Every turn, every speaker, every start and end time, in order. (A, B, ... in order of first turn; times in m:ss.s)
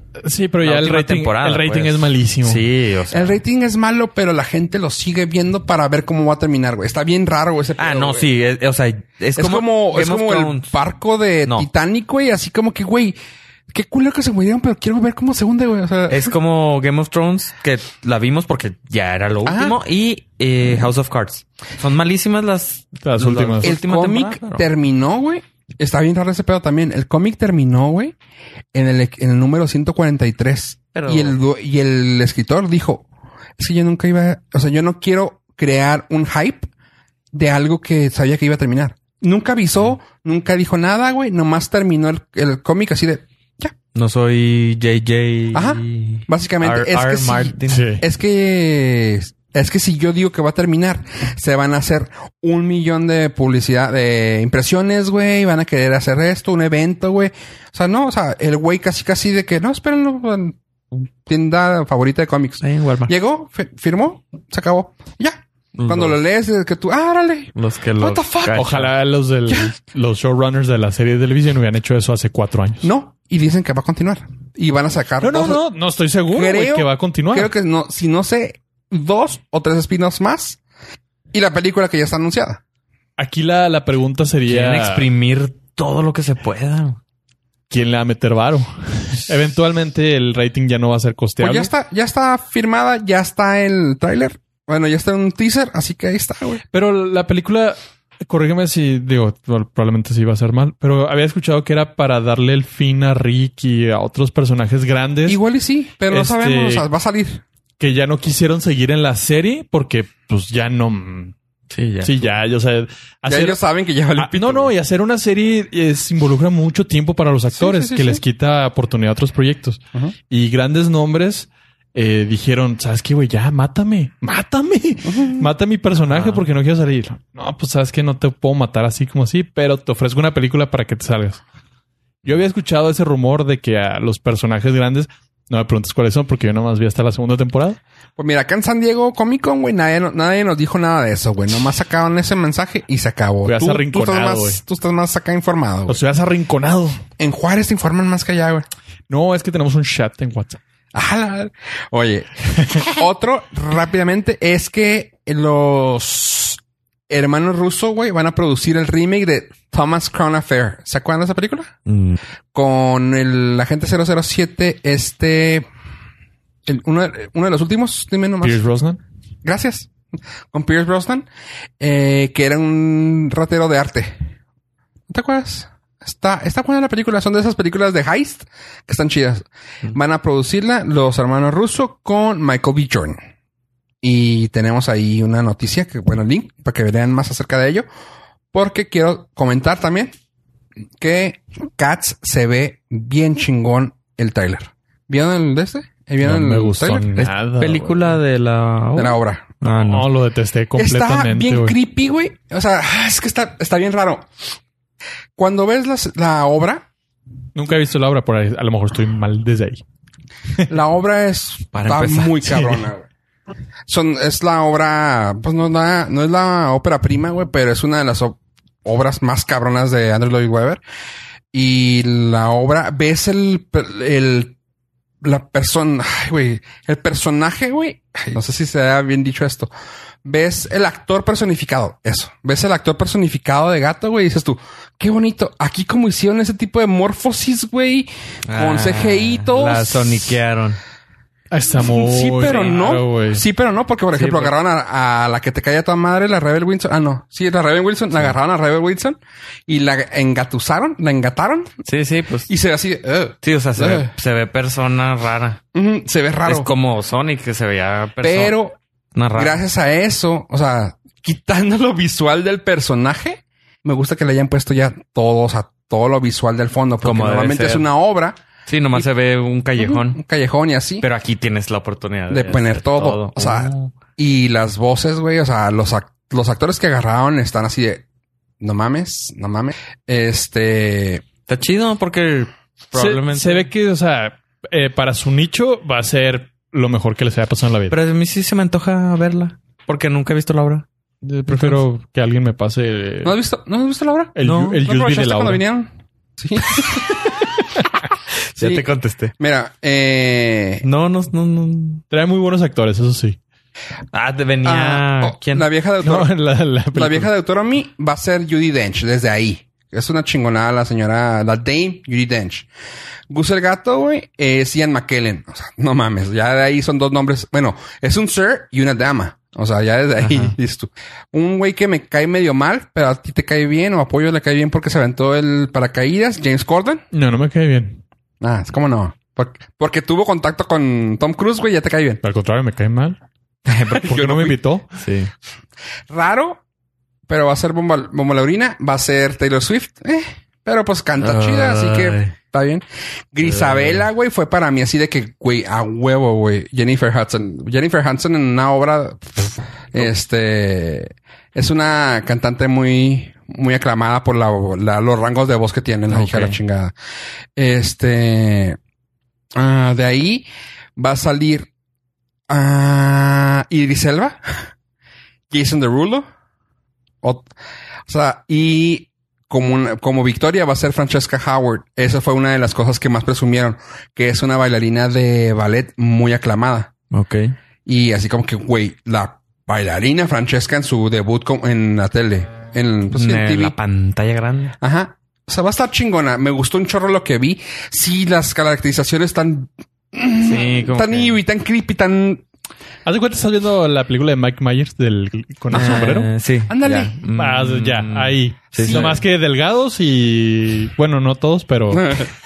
0:00.2-0:02.6 A
0:00.6-0:03.4 B
0:03.1-0:08.3 C
0:07.8-0:10.7 B
0:09.4-0:13.2 C
0:13.7-0:16.3 C
0:16.1-0:24.6 B
0:19.4-0:19.8 C
0:23.0-0:23.7 A
0:23.6-0:28.2 C
0:28.7-0:33.0 C
0:30.9-0:31.4 B
0:33.6-0:36.7 C
0:37.3-0:43.7 C
0:43.9-0:47.9 B
0:45.5-1:08.7 C
0:47.7-0:48.0 A
1:02.6-1:03.1 B
1:05.7-1:06.2 B
1:07.5-1:08.9 B
1:08.5-1:12.9 A
1:12.8-1:15.6 C
1:15.2-1:17.5 A
1:16.3-1:20.6 C
1:21.3-1:22.6 C
1:23.2-1:25.1 A
1:24.5-1:27.0 B
1:27.7-1:31.7 A
1:31.4-1:36.6 C
1:36.7-1:45.4 A
1:45.3-1:47.4 C
1:46.1-1:46.8 A
1:47.8-1:51.3 A
1:51.7-1:52.3 B
1:52.0-1:53.6 A
1:53.3-1:54.7 C
1:54.2-2:11.4 A
1:57.6-1:58.2 C
2:05.1-2:05.5 C
2:06.1-2:06.4 B
2:12.2-2:17.8 A
2:18.2-2:26.0 C
2:23.4-2:24.6 A
2:25.9-2:27.0 A
2:27.2-2:28.6 C
2:29.1-2:30.6 A
2:30.9-2:41.7 C
2:41.8-2:42.2 B
2:42.5-2:45.7 C
2:46.6-2:48.6 C
2:48.4-2:49.0 A
2:49.4-2:49.9 C
2:50.5-2:51.3 C
2:51.8-2:54.2 C
2:55.1-3:03.2 C
3:04.0-3:07.8 C
3:08.5-3:10.1 C
3:11.0-3:17.3 C
3:16.2-3:18.2 A
3:17.6-3:20.0 B
3:19.0-3:19.5 C
3:19.6-3:21.7 A
3:20.8-3:24.3 C
3:25.4-3:26.8 C
3:27.5-3:29.8 A
3:30.7-3:33.1 C
3:31.7-3:32.8 B
3:33.9-3:40.8 C
3:41.5-3:44.5 C
3:45.2-3:49.7 C
3:50.2-4:00.4 C
3:58.4-4:00.8 B
4:01.5-4:03.4 A
4:01.8-4:11.7 C
4:04.1-4:04.5 B
4:11.8-4:12.5 B
4:12.5-4:14.1 C
4:13.4-4:15.6 B
4:15.7-4:16.7 C
4:16.4-4:18.6 B
4:18.2-4:18.8 C
4:19.1-4:19.6 B
4:19.3-4:28.4 C
4:27.0-4:27.9 B
4:28.7-4:30.2 B
4:29.8-4:31.0 C
4:31.0-4:33.9 B
4:32.3-4:38.0 C
4:38.6-4:41.2 C
4:41.5-4:43.7 B
4:42.9-4:47.9 A
4:47.9-4:50.8 B
4:51.2-4:53.3 A
4:51.5-4:51.8 B
4:53.2-4:57.2 C
4:54.4-4:55.6 A
4:54.4-4:54.8 B
4:58.5-4:59.3 B
4:58.6-5:00.8 C
5:00.8-5:02.0 B
5:02.1-5:03.4 A
5:04.1-5:05.6 B
5:04.6-5:06.3 C
5:06.0-5:07.3 A
5:06.9-5:12.7 C
5:13.3-5:27.0 C
5:20.2-5:20.5 B
5:27.1-5:28.0 A
5:28.4-5:32.2 C
5:32.2-5:33.2 A
5:33.6-5:34.2 B
5:34.0-5:34.6 C
5:34.0-5:34.9 A
5:34.9-5:35.3 B
5:36.1-5:36.6 C
5:37.3-5:56.9 C
5:41.2-5:42.3 B
5:43.4-5:44.0 B
5:56.1-5:56.6 B
5:57.6-5:58.8 C
5:59.5-6:01.7 C
6:02.5-6:04.7 C
6:05.5-6:06.2 C
6:07.2-6:07.5 C
6:08.1-6:16.9 C
6:17.1-6:17.5 B
6:17.8-6:23.8 C
6:23.1-6:24.7 B
6:24.8-6:32.4 C
6:30.4-6:31.4 B
6:33.0-6:36.3 A
6:35.7-6:39.1 B
6:35.7-6:36.1 C
6:36.7-6:37.1 C
6:37.3-6:42.3 A
6:38.8-6:39.2 C
6:41.9-6:42.2 C